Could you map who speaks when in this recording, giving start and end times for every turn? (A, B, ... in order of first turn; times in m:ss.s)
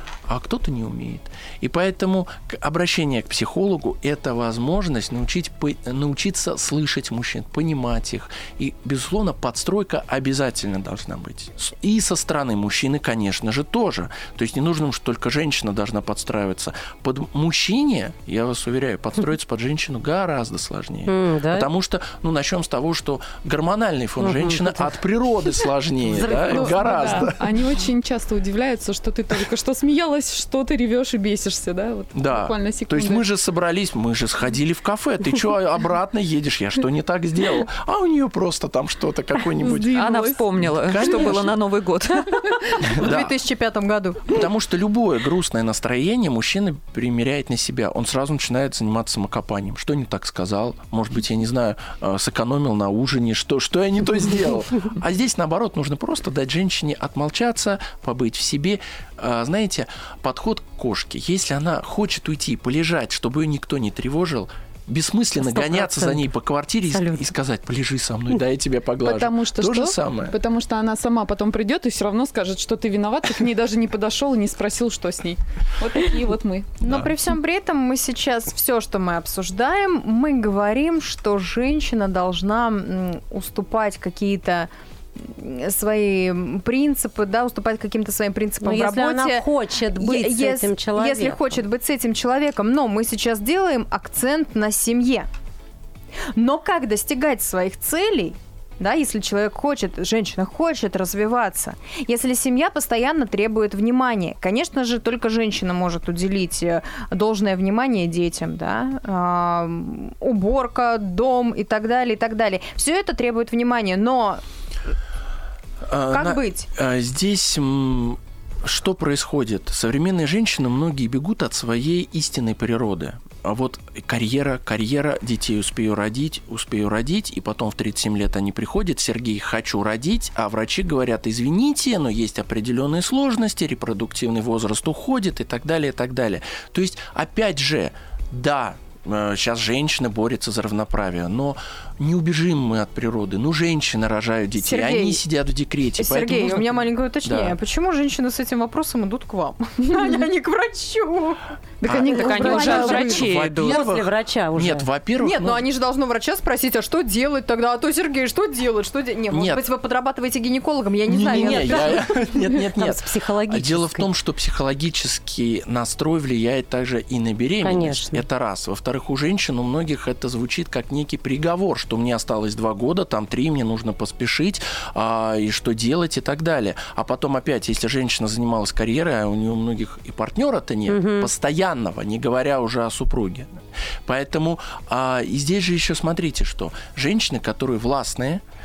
0:00.3-0:27.4 A
0:21.0-0:21.7 B
0:24.2-0:24.9 B
0:26.0-0:27.3 B
0:26.2-0:33.2 C
0:32.1-0:41.5 A
0:39.6-0:41.3 C
0:39.9-0:42.8 D
0:42.8-0:43.3 A
0:43.0-0:44.4 E
0:44.3-1:10.4 A
1:05.4-1:06.3 B
1:06.9-1:07.3 B
1:09.0-1:16.7 C
1:16.8-1:17.1 A
1:16.8-1:29.4 E
1:28.6-1:31.6 B
1:30.0-1:35.3 E
1:36.3-1:54.4 E
1:55.8-2:27.6 A
1:56.1-1:56.7 E
2:24.6-2:25.2 E
2:26.0-2:31.4 E
2:31.8-2:33.3 C
2:31.8-2:35.6 A
2:32.0-2:33.8 D
2:32.4-2:34.9 B
2:35.2-2:42.0 E
2:39.3-2:39.7 A
2:41.1-3:08.4 A
2:41.3-2:44.1 B
2:47.6-2:48.2 B
3:00.9-3:01.3 B